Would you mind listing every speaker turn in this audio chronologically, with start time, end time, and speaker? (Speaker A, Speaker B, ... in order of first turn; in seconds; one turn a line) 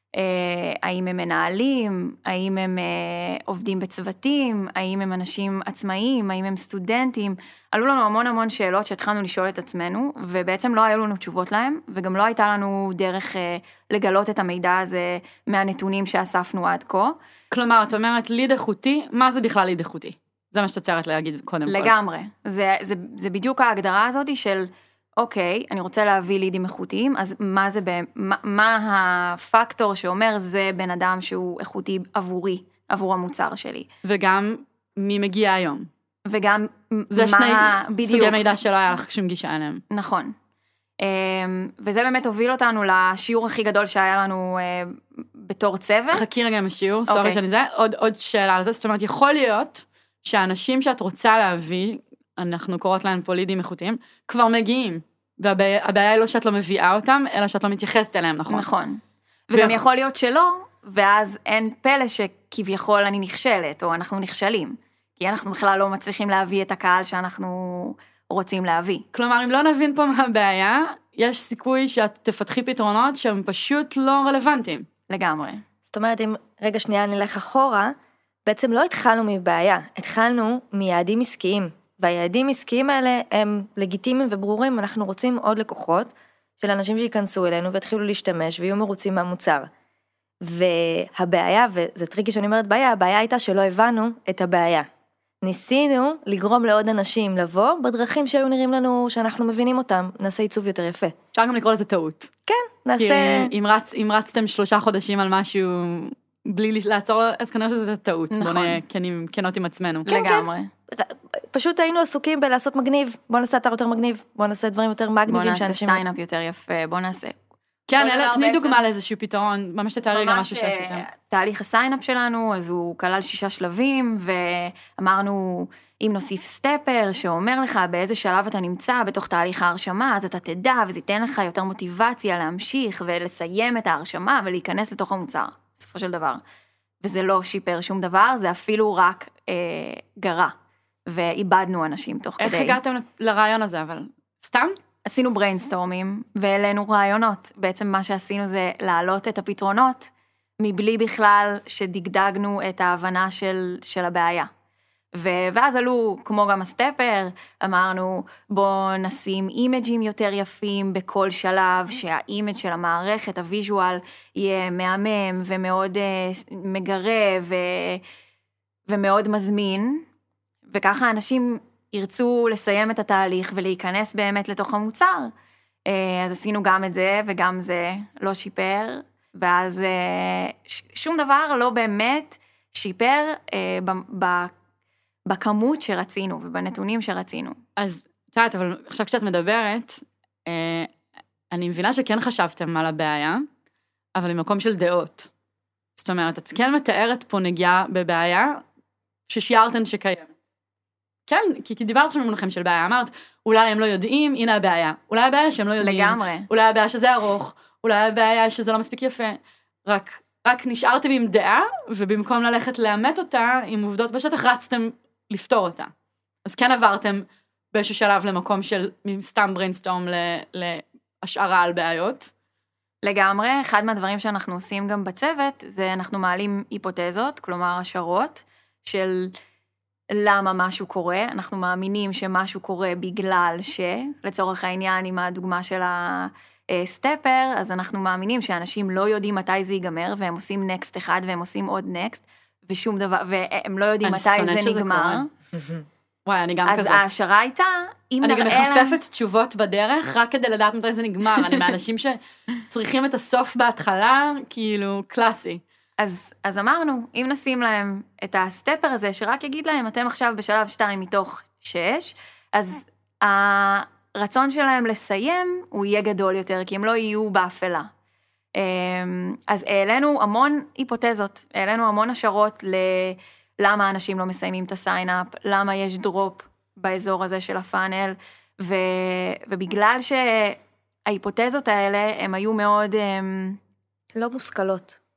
Speaker A: 0.1-17.2
Speaker B: 17.5-21.9
Speaker A: 21.7-33.9
Speaker B: 34.0-35.9
Speaker A: 36.3-38.4
Speaker B: 37.1-39.8
Speaker A: 39.9-40.3
Speaker A: 41.0-46.2
Speaker B: 46.1-58.7
Speaker A: 47.1-47.4
Speaker A: 58.5-69.0
Speaker B: 59.5-59.8
Speaker B: 69.1-74.8
Speaker A: 75.1-75.6
Speaker C: 75.9-77.9
Speaker C: 78.4-89.7
Speaker C: 90.4-94.8
Speaker C: 95.4-101.1
Speaker B: 101.3-102.3
Speaker C: 102.5-103.5
Speaker B: 103.0-110.1
Speaker A: 108.3-108.8
Speaker A: 110.0-110.7
Speaker C: 110.1-116.0
Speaker A: 115.3-117.4
Speaker B: 117.9-121.0
Speaker A: 118.0-118.8
Speaker A: 120.1-136.4
Speaker A: 137.0-140.5
Speaker A: 141.1-142.8
Speaker B: 142.4-144.8
Speaker A: 145.1-154.5
Speaker A: 155.1-168.0
Speaker A: 168.9-170.0
Speaker A: 170.7-175.3
Speaker A: 175.9-184.5
Speaker A: 185.3-187.6
Speaker B: 187.8-190.9
Speaker B: 191.5-193.4
Speaker B: 194.2-195.3
Speaker B: 196.0-198.6
Speaker B: 199.3-200.3
Speaker B: 201.3-215.9
Speaker A: 205.8-206.5
Speaker B: 216.4-222.3
Speaker A: 223.0-229.3
Speaker A: 230.2-245.3
Speaker B: 244.0-245.2
Speaker C: 245.6-245.8
Speaker B: 246.2-247.1
Speaker A: 246.7-249.0
Speaker B: 248.2-255.6
Speaker A: 256.0-267.9
Speaker A: 268.6-283.6
Speaker C: 284.1-285.0